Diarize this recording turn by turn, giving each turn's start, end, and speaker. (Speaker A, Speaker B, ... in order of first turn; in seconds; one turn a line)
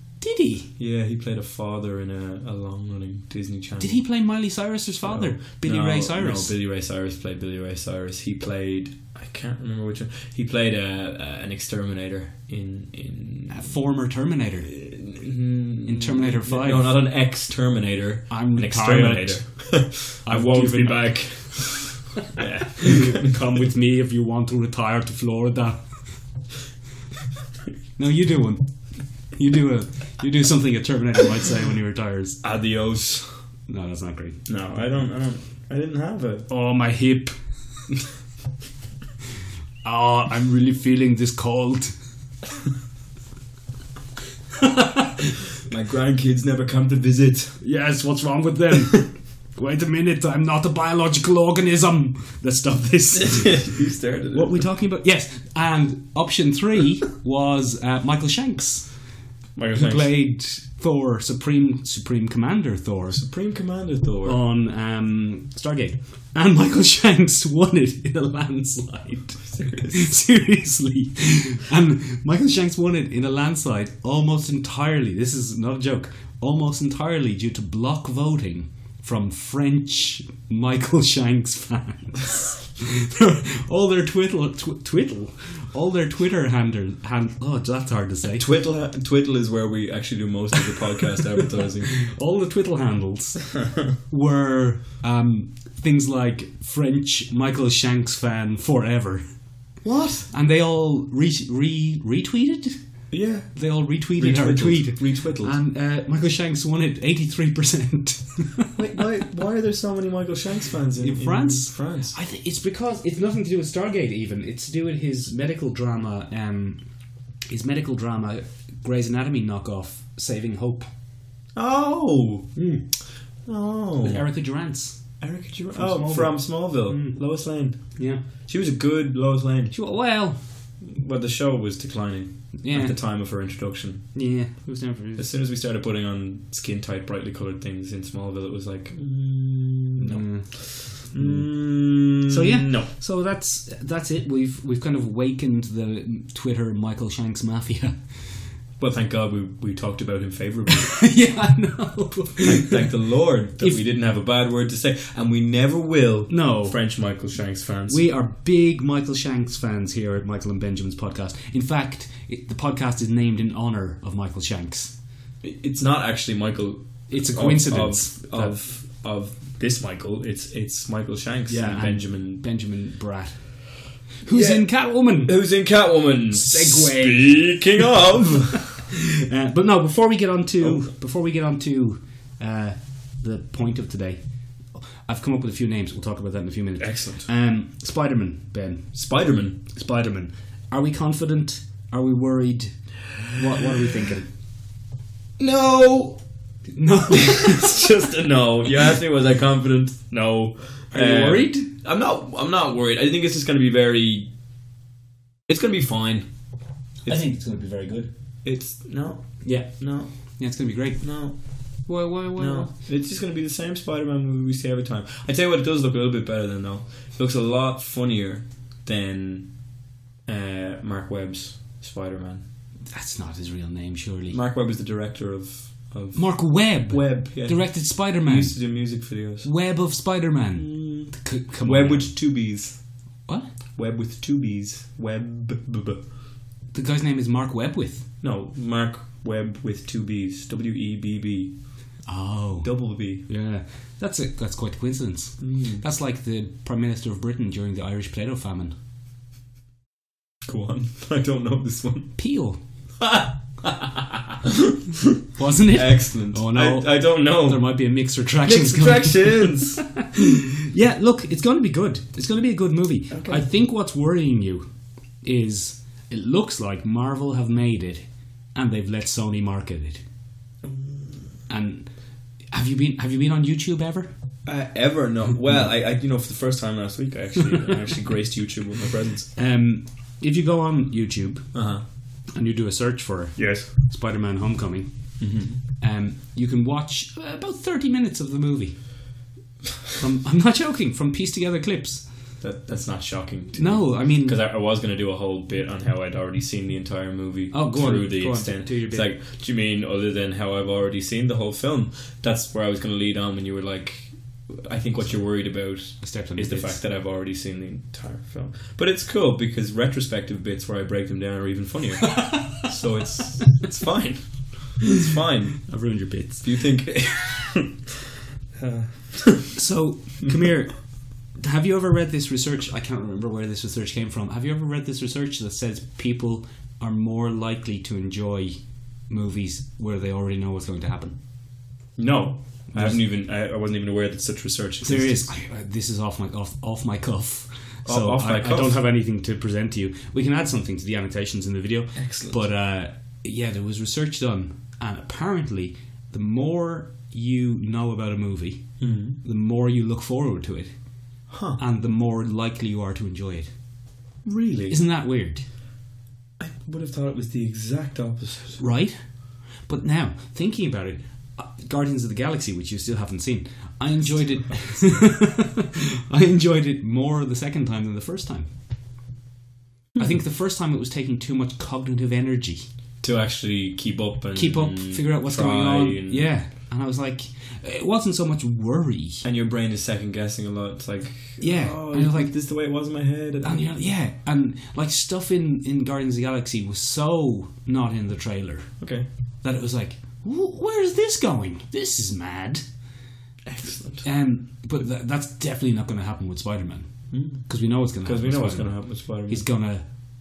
Speaker A: 0.2-0.7
Speaker B: 0.8-4.0
Speaker A: 3.8-6.5
Speaker B: 5.0-13.7
Speaker A: 13.5-14.7
Speaker B: 14.7-23.7
Speaker A: 15.9-16.9
Speaker A: 18.3-19.4
Speaker A: 20.3-21.5
Speaker A: 22.8-25.8
Speaker A: 28.0-28.7
Speaker A: 29.4-32.4
Speaker B: 32.4-33.3
Speaker A: 33.7-34.4
Speaker B: 34.5-36.5
Speaker A: 36.5-37.3
Speaker A: 39.8-41.9
Speaker A: 44.6-45.4
Speaker B: 45.7-47.6
Speaker A: 47.6-53.7
Speaker B: 53.1-54.6
Speaker A: 54.3-58.9
Speaker B: 59.6-60.1
Speaker A: 59.7-63.2
Speaker B: 63.1-64.4
Speaker A: 64.2-88.4
Speaker B: 69.5-70.1
Speaker B: 88.4-92.0
Speaker A: 91.9-93.5
Speaker B: 93.5-93.9
Speaker A: 94.1-99.2
Speaker B: 99.8-100.3
Speaker A: 100.3-102.8
Speaker B: 103.1-105.5
Speaker A: 103.5-108.7
Speaker B: 108.8-112.2
Speaker A: 111.0-116.8
Speaker A: 117.5-120.9
Speaker B: 121.5-122.6
Speaker A: 122.6-122.9
Speaker B: 123.5-124.2
Speaker A: 124.0-125.0
Speaker B: 125.2-127.9
Speaker A: 125.7-127.2
Speaker A: 128.0-128.2
Speaker B: 128.5-129.7
Speaker A: 129.7-130.4
Speaker B: 130.8-134.1
Speaker A: 132.6-133.0
Speaker A: 134.2-135.3
Speaker B: 135.2-142.9
Speaker A: 140.0-141.5
Speaker A: 142.3-148.0
Speaker B: 148.8-151.1
Speaker A: 150.7-152.9
Speaker B: 152.4-158.0
Speaker A: 156.3-156.8
Speaker A: 157.9-164.9
Speaker B: 165.4-172.4
Speaker A: 167.1-168.6
Speaker A: 171.5-173.4
Speaker A: 174.2-175.4
Speaker B: 174.3-178.7
Speaker A: 176.3-177.8
Speaker A: 178.9-184.2
Speaker A: 185.1-189.0
Speaker B: 186.8-187.3
Speaker B: 188.9-189.6
Speaker A: 189.7-194.3
Speaker B: 195.4-196.2
Speaker A: 196.7-197.8
Speaker B: 197.1-204.3
Speaker A: 200.9-201.7
Speaker B: 205.5-206.3
Speaker A: 207.1-208.1
Speaker B: 208.4-210.1
Speaker A: 209.4-209.8
Speaker A: 210.4-211.0
Speaker B: 211.0-211.4
Speaker A: 211.9-212.7
Speaker B: 212.3-219.5
Speaker B: 220.3-222.4
Speaker A: 222.9-224.4
Speaker B: 224.3-229.5
Speaker A: 226.2-228.6
Speaker A: 229.4-232.1
Speaker B: 230.6-232.8
Speaker B: 233.8-236.0
Speaker A: 236.7-238.1
Speaker B: 238.2-241.5
Speaker A: 242.1-242.7
Speaker B: 242.6-243.3
Speaker A: 243.2-248.8
Speaker B: 245.4-245.8
Speaker B: 250.4-252.1
Speaker A: 252.2-252.6
Speaker B: 253.0-255.2
Speaker A: 255.4-264.6
Speaker B: 255.7-257.7
Speaker B: 258.4-259.8
Speaker B: 263.1-263.4
Speaker A: 265.2-270.0
Speaker B: 270.6-271.2
Speaker A: 271.5-271.9
Speaker A: 272.5-274.1
Speaker B: 274.5-279.3
Speaker A: 279.4-281.5
Speaker B: 281.5-281.8
Speaker A: 282.3-284.9
Speaker B: 283.4-283.7
Speaker B: 285.2-285.6
Speaker A: 285.8-288.8
Speaker A: 290.0-292.0
Speaker B: 292.4-315.7
Speaker A: 293.6-294.4
Speaker A: 297.5-299.1
Speaker A: 306.0-306.8
Speaker A: 315.7-316.4
Speaker B: 316.4-317.9
Speaker B: 318.6-319.6
Speaker A: 319.6-320.9
Speaker A: 321.4-328.6
Speaker A: 329.1-331.2
Speaker B: 332.0-335.3
Speaker A: 332.7-333.0
Speaker A: 334.8-348.7
Speaker B: 337.9-338.8
Speaker B: 342.0-342.4
Speaker B: 348.8-349.2
Speaker A: 349.2-350.7
Speaker B: 351.3-351.6
Speaker A: 351.6-353.5
Speaker B: 354.2-354.8
Speaker A: 354.7-355.4
Speaker B: 356.4-358.6
Speaker A: 358.6-359.0
Speaker A: 359.7-368.5
Speaker B: 364.6-365.0
Speaker A: 370.0-372.6
Speaker B: 373.0-376.3
Speaker A: 374.4-379.2
Speaker B: 379.2-383.6
Speaker A: 381.4-382.3
Speaker A: 383.4-388.8
Speaker A: 389.4-392.6
Speaker B: 393.5-394.1
Speaker A: 394.0-396.9
Speaker B: 397.1-397.4
Speaker A: 397.4-399.9
Speaker B: 398.0-399.5